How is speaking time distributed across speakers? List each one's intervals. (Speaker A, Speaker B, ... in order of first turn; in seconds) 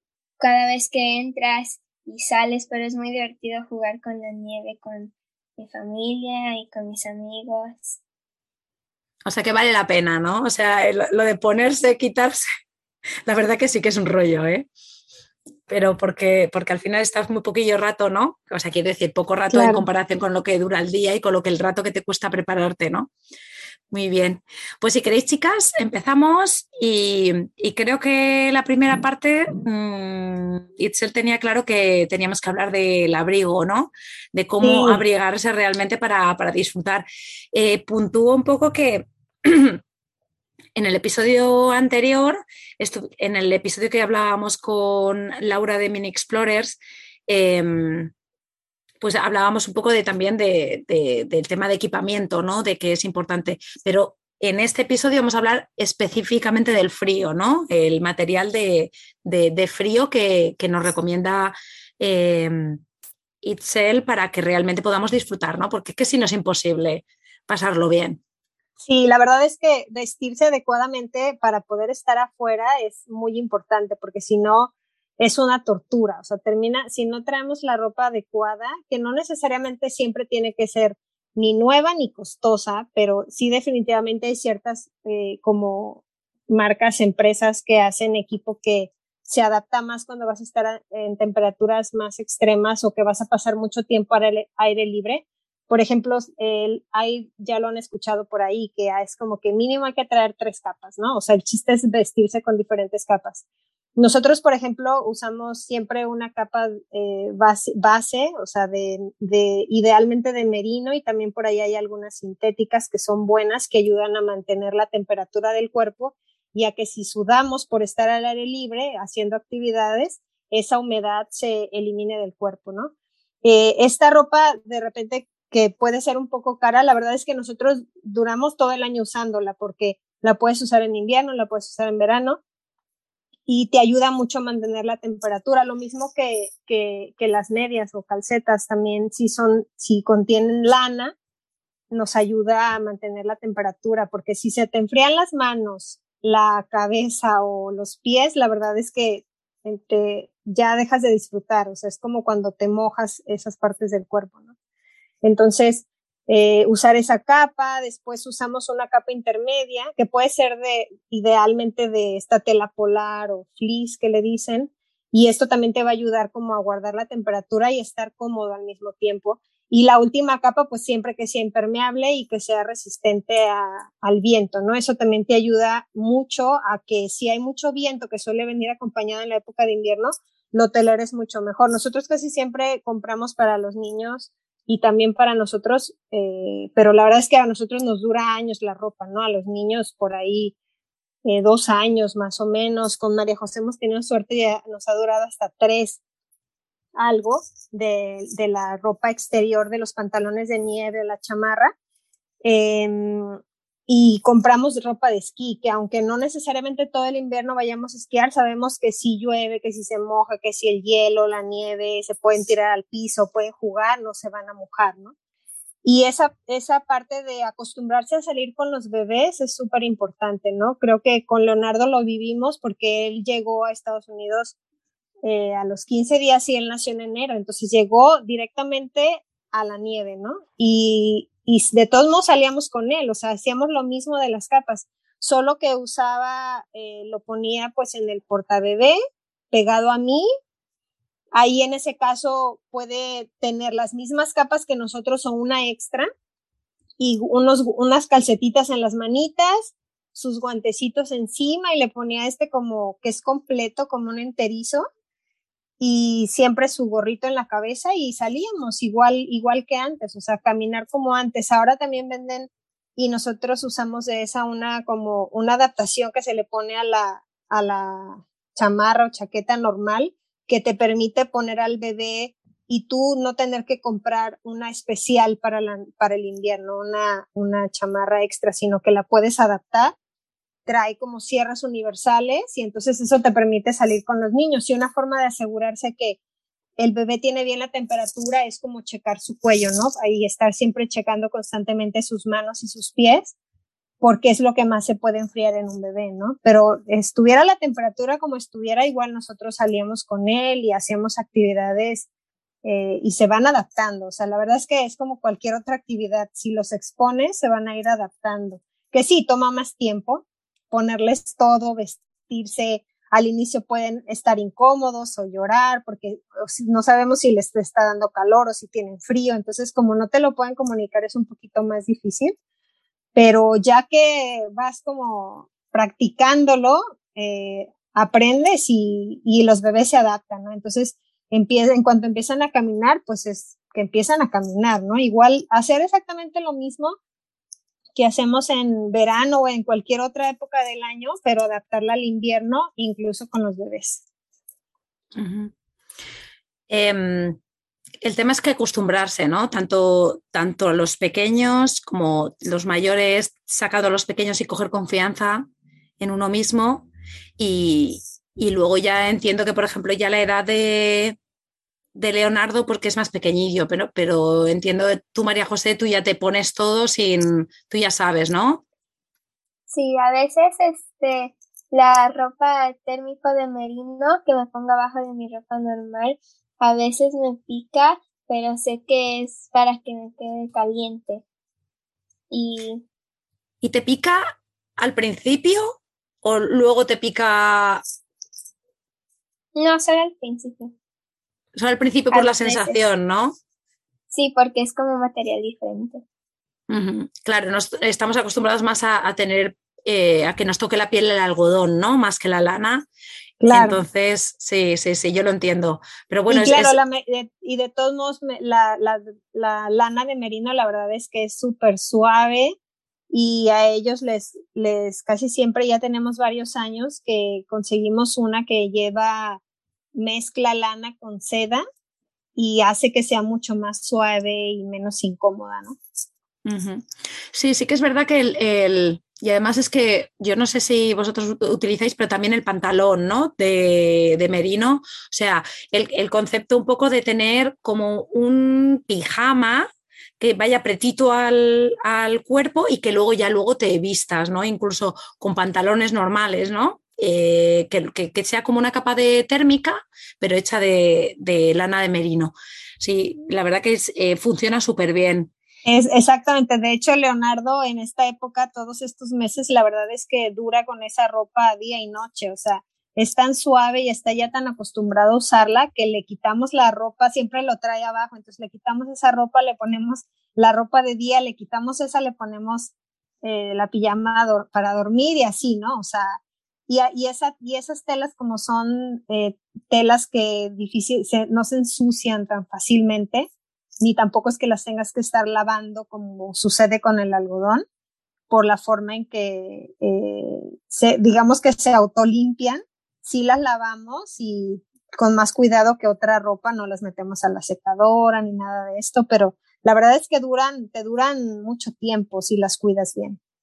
Speaker A: 0.4-8.0, 369.7-381.2, 382.3-382.8, 389.6-390.7, 392.1-392.8, 394.1-396.0
Speaker B: 9.3-12.4, 13.3-14.7, 15.7-23.1, 23.9-39.8, 40.8-48.1, 49.0-62.8, 63.4-68.2, 345.1-345.5, 346.7-347.4, 348.0-355.5, 356.0-361.2, 361.9-368.6, 383.6-384.3, 384.8-387.8, 391.6-393.4, 396.7-402.9, 403.5-406.8, 426.4-439.7, 440.2-455.3
Speaker C: 19.5-19.8, 34.6-35.0, 68.8-103.4, 104.0-122.9, 123.4-132.4, 133.5-141.2, 141.9-154.5, 155.2-190.6, 191.2-196.0, 197.0-201.7, 202.4-215.1, 215.8-224.6, 225.2-239.0, 239.5-240.2, 241.3-246.1, 247.0-254.9, 255.8-279.9, 280.7-286.2, 286.8-293.4, 294.0-302.1, 302.6-322.4, 323.2-337.0, 338.0-344.0, 403.4-403.8, 406.3-412.6, 413.1-419.4, 419.9-421.6, 422.4-425.8, 455.6-472.7, 473.2-487.6, 488.3-503.2